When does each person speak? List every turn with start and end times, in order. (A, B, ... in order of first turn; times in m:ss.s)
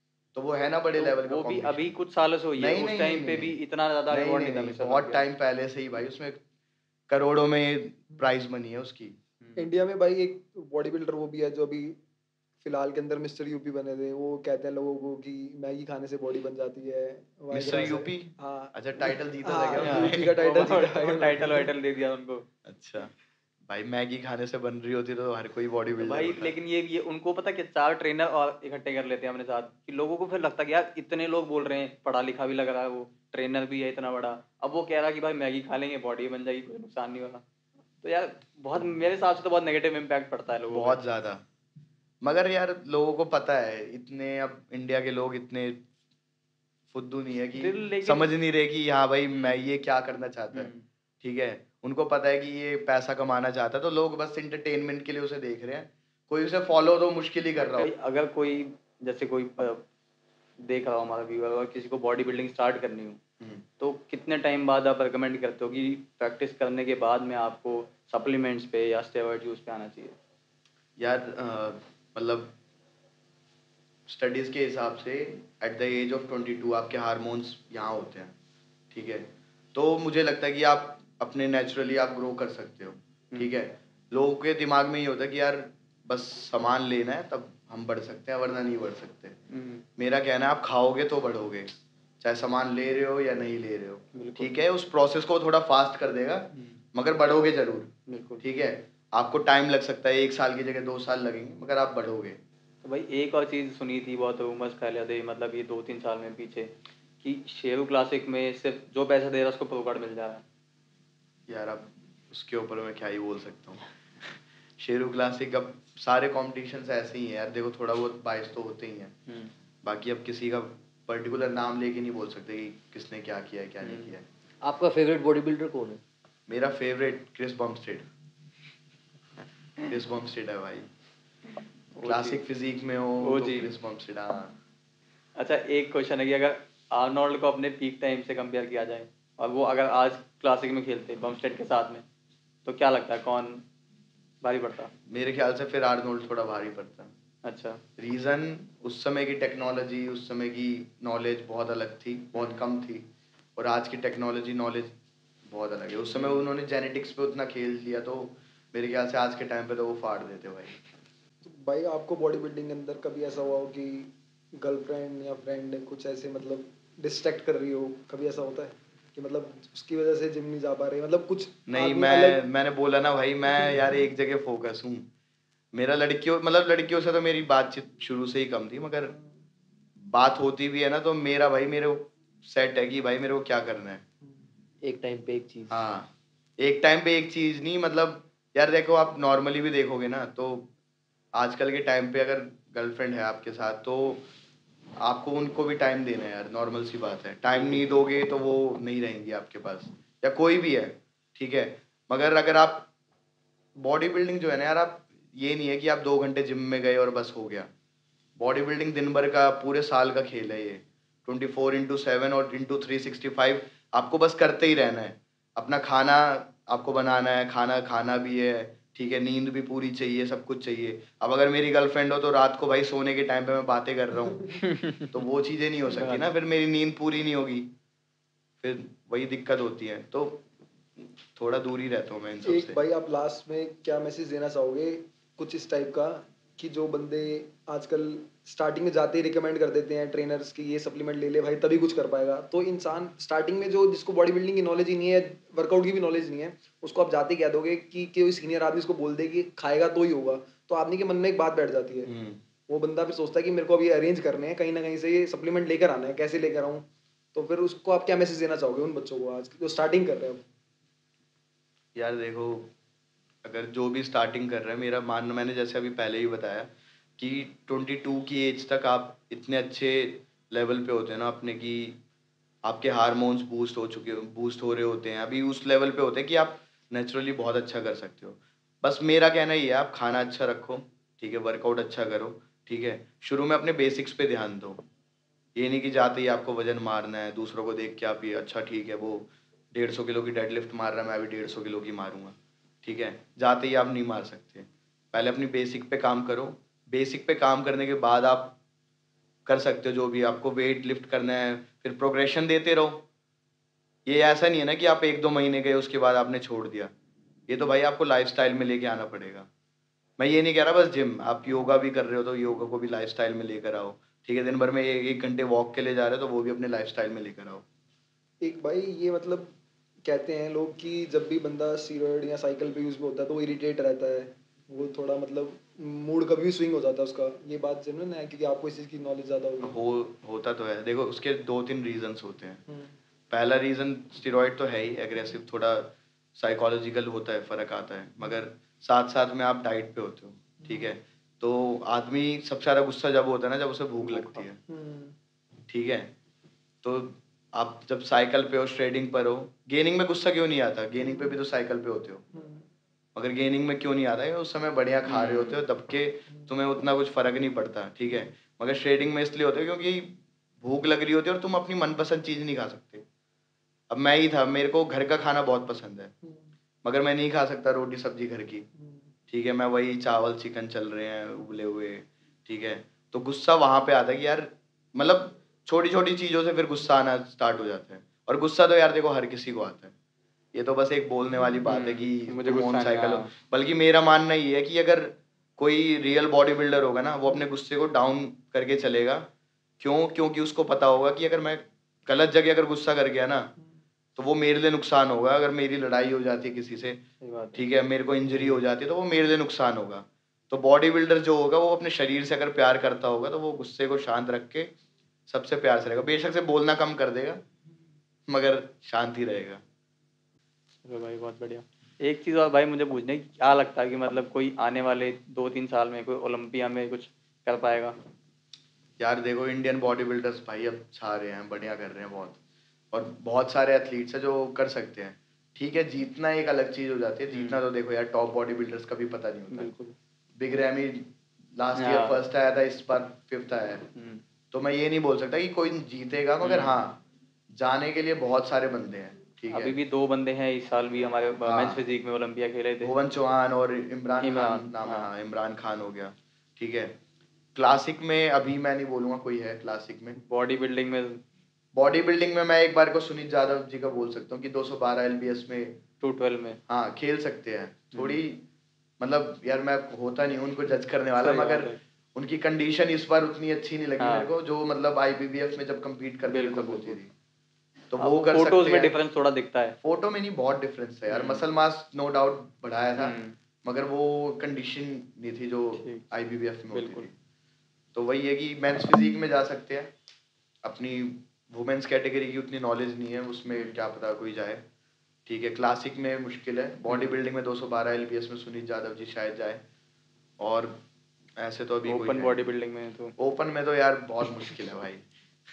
0:00.3-0:02.0 A
0:01.0-0:05.3 B
0:02.6-0:03.6 A
0:04.1-0:06.4 A
0:07.1-0:09.2 A
0:09.4-0:09.7 B
0:09.6-0:12.0 C
0:12.6-0:21.7 C
0:17.5-0:20.3 A
0:19.8-0:22.5 B
0:22.7-0:23.1 A
0:23.7-0:26.5 A
0:26.0-0:37.4 B
0:38.0-0:41.0 B
0:40.7-0:41.4 A
0:42.2-0:45.9 A
0:46.9-0:50.7 A
0:47.6-0:48.3 B
0:50.5-0:50.8 B
0:51.2-0:57.9 A
0:57.7-0:59.8 B
1:00.7-1:03.2 B
1:03.4-1:03.6 A
1:03.8-1:10.2 B
1:11.0-1:12.6 A
1:14.1-1:18.3 A
1:18.9-1:29.4 A
1:29.5-1:29.8 B
1:30.0-1:42.4 A
1:34.1-1:34.5 B
1:36.5-1:36.8 B
1:38.1-1:38.4 B
1:42.8-1:46.7 B
1:47.2-1:50.4 B
1:51.5-1:53.9 A
1:54.8-1:59.2 A
1:59.8-2:04.2 A
2:03.8-2:04.1 B
2:04.6-2:06.0 D
2:06.5-2:08.1 A
2:09.9-2:10.9 A
2:12.0-2:12.4 B
2:12.0-2:14.5 A
2:13.2-2:13.7 B
2:15.4-2:22.0 B
2:22.6-2:23.6 B
2:24.4-2:24.9 B
2:25.1-2:27.1 A
2:27.4-2:27.8 B
2:28.0-2:34.9 A
2:32.4-2:32.6 B
2:35.5-2:40.8 A
2:36.2-2:36.4 B
2:41.4-2:52.4 C
2:51.7-2:55.1 A
2:55.7-2:59.2 A
3:00.0-3:04.0 A
3:04.8-3:05.8 D
3:05.7-3:10.7 A
3:11.4-3:14.3 A
3:15.0-3:22.9 A
3:17.5-3:17.8 B
3:23.8-3:27.7 A
3:28.4-3:44.5 A
3:44.6-3:45.1 B
3:45.1-3:47.7 A
3:45.9-3:46.3 B
3:48.6-3:50.4 A
3:51.3-3:52.8 A
3:52.4-4:12.1 C
4:12.1-4:12.4 A
4:12.7-4:20.4 C
4:22.0-4:22.7 A
4:23.4-4:32.0 A
4:32.6-4:44.8 A
4:45.6-4:58.6 A
4:59.5-5:03.1 A
5:04.1-5:06.9 A
5:07.5-5:09.5 A
5:10.2-5:17.6 A
5:18.4-5:19.5 C
5:20.0-5:29.8 C
5:29.6-5:32.6 A
5:33.3-5:44.6 A
5:44.0-5:44.5 B
5:44.7-5:45.2 C
5:45.7-5:46.1 A
5:46.8-5:52.2 A
5:52.3-5:52.6 C
5:53.2-6:03.0 A
5:55.1-5:55.6 B
6:03.9-6:06.1 A
6:06.2-6:06.5 C
6:06.8-6:08.6 A
6:08.8-6:09.1 C
6:09.3-6:19.9 A
6:20.5-6:29.3 A
6:21.6-6:23.3 B
6:29.8-6:33.5 A
6:34.2-6:37.0 A
6:37.2-6:37.6 B
6:37.6-6:44.7 A
6:38.3-6:38.6 B
6:45.3-6:47.4 A
6:48.3-6:49.6 A
6:50.8-6:57.9 B
6:59.0-7:02.4 A
7:02.9-7:09.7 A
7:07.3-7:07.6 B
7:09.5-7:10.0 B
7:10.4-7:13.9 A
7:11.8-7:12.2 B
7:14.0-7:14.2 B
7:14.5-7:19.8 A
7:16.4-7:16.8 B
7:19.5-7:22.9 B
7:21.5-7:21.8 A
7:22.8-7:27.0 A
7:24.2-7:25.1 B
7:27.6-7:30.2 A
7:30.2-7:31.2 B
7:31.7-7:35.8 A
7:36.0-7:36.6 B
7:36.7-7:38.5 A
7:37.9-7:38.2 B
7:39.0-7:47.1 A
7:41.2-7:41.8 B
7:44.0-7:44.3 B
7:46.3-7:47.0 B
7:47.9-7:48.9 A
7:48.0-7:49.8 B
7:49.8-7:57.1 A
7:51.1-7:51.4 B
7:53.0-7:53.4 B
7:55.8-7:56.1 B
7:56.7-7:57.1 B
7:57.9-7:59.9 A
8:00.6-8:04.6 A
8:05.3-8:09.6 A
8:06.9-8:07.2 B
8:10.4-8:10.8 A
8:11.4-8:12.5 A
8:11.8-8:13.2 B
8:13.2-8:15.1 A